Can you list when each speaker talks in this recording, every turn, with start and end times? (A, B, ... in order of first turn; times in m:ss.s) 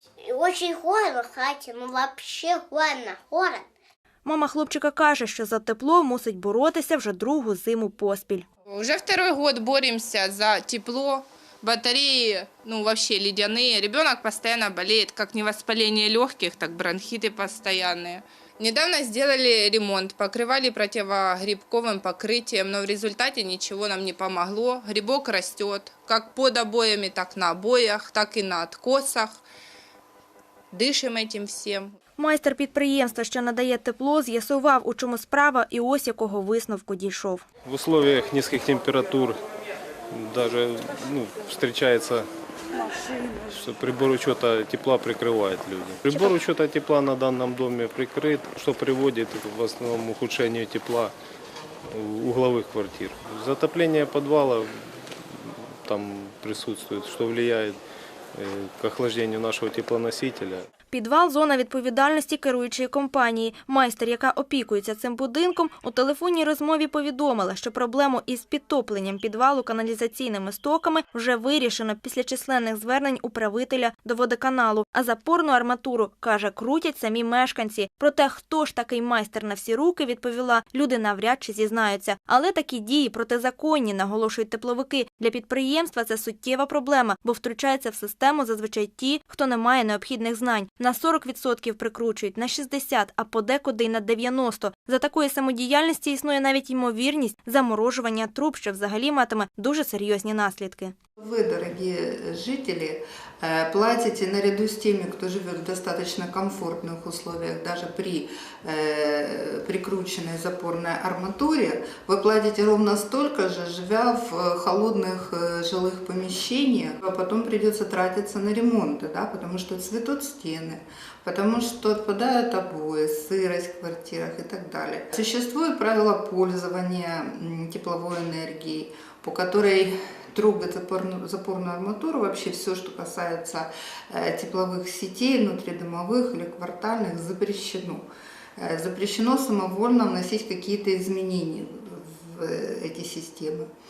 0:00.3-0:03.7 A
0:04.2-0:08.4 B
0:08.7-0:29.4 C
0:30.7-0:31.9 C
0:32.2-0:37.4 B
0:37.6-0:39.4 D
0:40.1-0:42.3 D
0:43.5-0:51.1 D
0:51.9-0:54.7 D
0:55.3-0:57.8 D
0:58.4-1:00.6 D
1:00.9-1:40.9 B
1:41.2-2:23.7 E